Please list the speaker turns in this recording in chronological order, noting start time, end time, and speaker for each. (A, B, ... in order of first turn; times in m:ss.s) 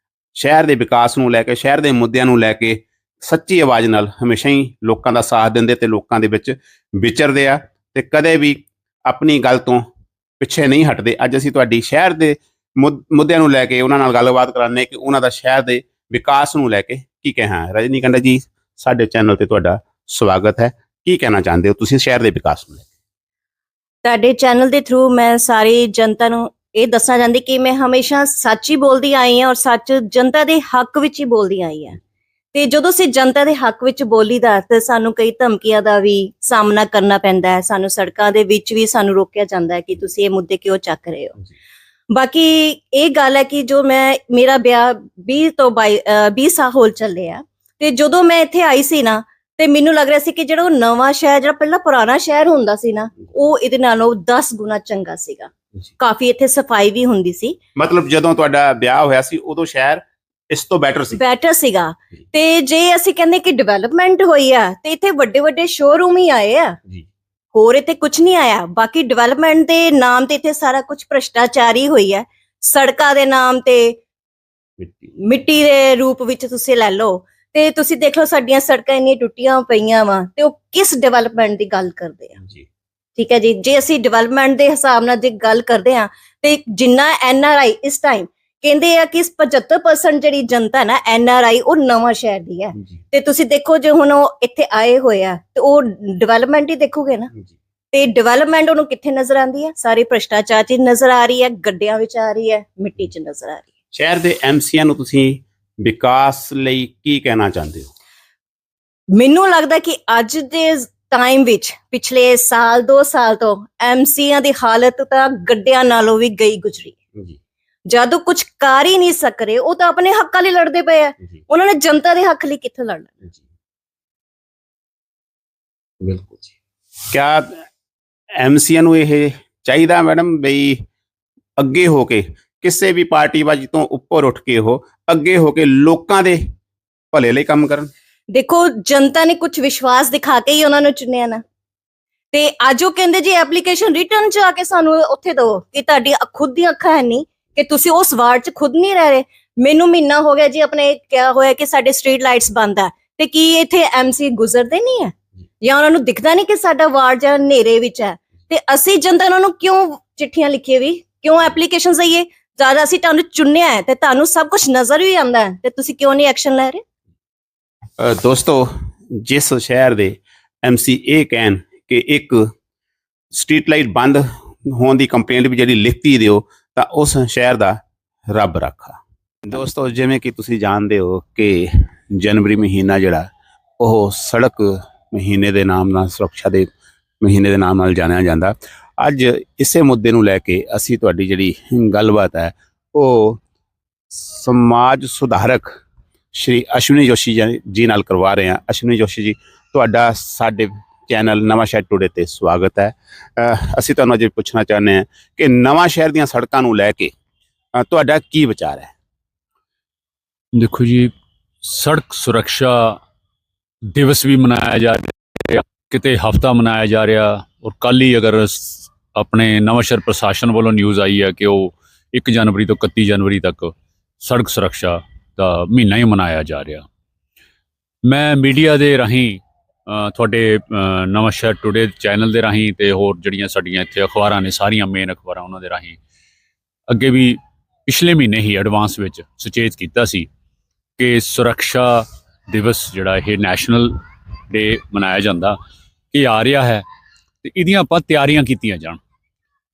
0:00.4-0:09.9 A
0:10.4-0:22.9 A
0:24.0-0:32.0 B
0:32.5-0:41.4 B
0:42.1-0:57.6 B
0:57.8-1:01.2 A
1:01.1-1:06.8 B
1:07.5-1:14.0 B
1:14.8-1:15.1 A
1:15.2-1:22.4 B
1:23.2-1:37.3 B
1:37.9-1:43.7 B
1:43.9-1:47.9 A
1:49.2-1:57.0 B
1:57.9-2:03.2 B
2:06.0-2:06.5 A
2:07.1-2:07.6 A
2:08.4-2:10.8 A
2:11.6-2:16.4 A
2:17.1-2:17.9 A
2:18.3-2:21.4 B
2:22.3-2:46.8 B
2:48.0-2:52.5 A
2:53.3-2:57.8 A
2:58.3-3:03.3 A
3:03.8-3:13.4 A
3:14.1-3:15.7 A
3:16.3-3:27.1 A
3:27.8-3:28.9 A
3:30.6-3:31.1 C
3:31.6-3:33.0 C
3:33.9-3:46.8 C
3:48.1-3:56.0 C
3:56.9-4:00.3 C
4:01.0-4:03.9 C
4:04.5-4:05.6 C
4:06.1-4:06.8 C
4:07.4-4:09.0 C